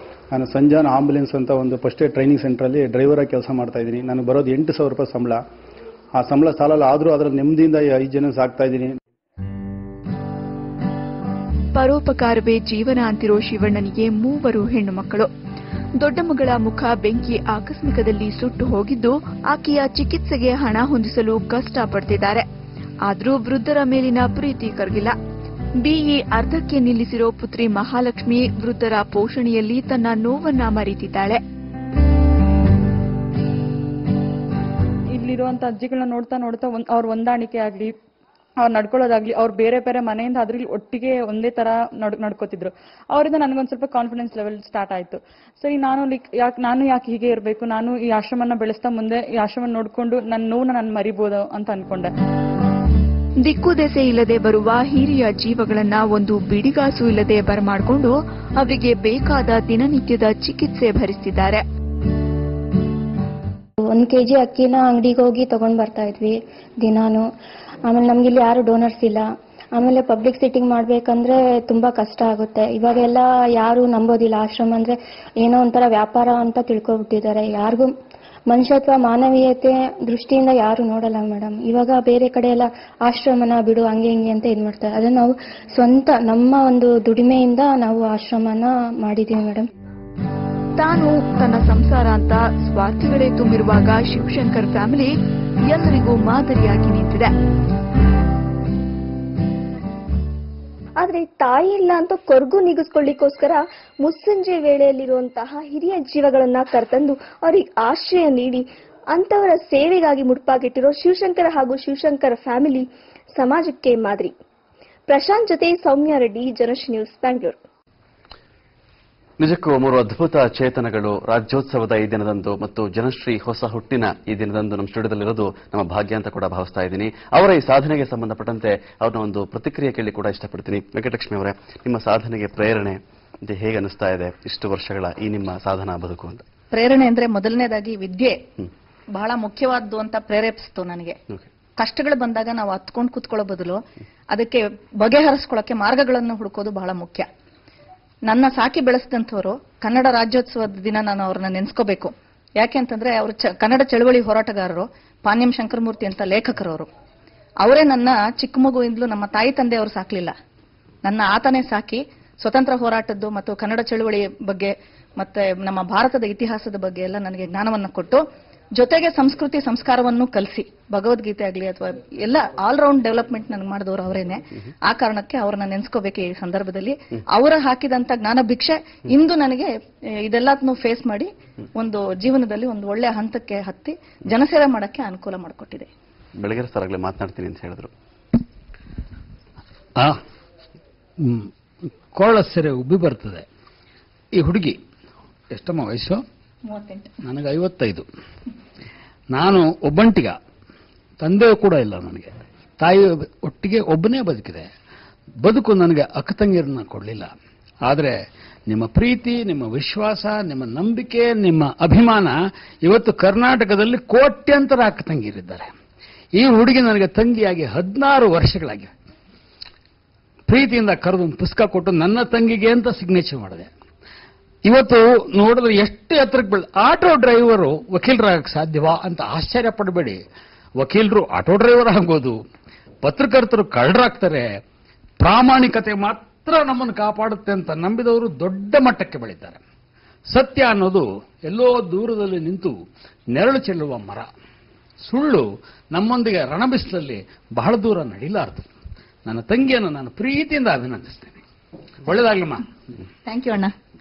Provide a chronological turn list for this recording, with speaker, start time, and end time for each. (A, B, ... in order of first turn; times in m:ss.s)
0:00.3-0:05.4 A
0:06.2-0:09.0 A
0:11.8-0:15.3 B
0:16.0-0:22.4 B
0:23.0-0:25.2 B
0:25.8-0:31.4 B
0:35.1-0:37.9 C
0:38.6-0:52.1 C
0:53.4-1:01.6 B
1:03.9-1:07.3 D
1:07.9-1:17.9 D
1:18.5-1:29.7 D
1:30.8-1:35.1 B
1:35.7-1:37.3 B
1:41.0-1:54.3 E
1:55.1-1:57.6 E
1:59.4-2:16.4 F
2:16.7-2:18.4 G
2:19.1-2:21.2 G
2:21.8-2:27.3 G
2:28.2-2:36.9 G
2:37.6-2:40.3 G
2:41.0-2:48.2 G
2:48.8-3:05.9 G
3:06.4-3:07.9 F
3:11.2-3:11.5 H
3:12.1-3:13.4 H
3:14.4-3:14.8 H
3:15.5-3:16.2 H
3:16.7-3:17.1 G
3:17.2-3:18.0 H
3:19.3-3:20.4 H
3:21.2-3:24.7 H
3:25.4-3:27.3 H
3:27.8-3:28.2 H
3:28.7-3:35.7 H
3:36.4-3:38.9 H
3:40.5-3:43.7 H
3:44.6-3:50.2 H
3:50.8-3:52.4 H
3:53.0-3:54.5 H
3:55.2-3:59.6 H
4:00.3-4:02.7 H
4:03.3-4:04.3 H
4:05.0-4:08.7 H
4:09.2-4:11.4 H
4:12.0-4:12.6 H
4:13.2-4:13.7 G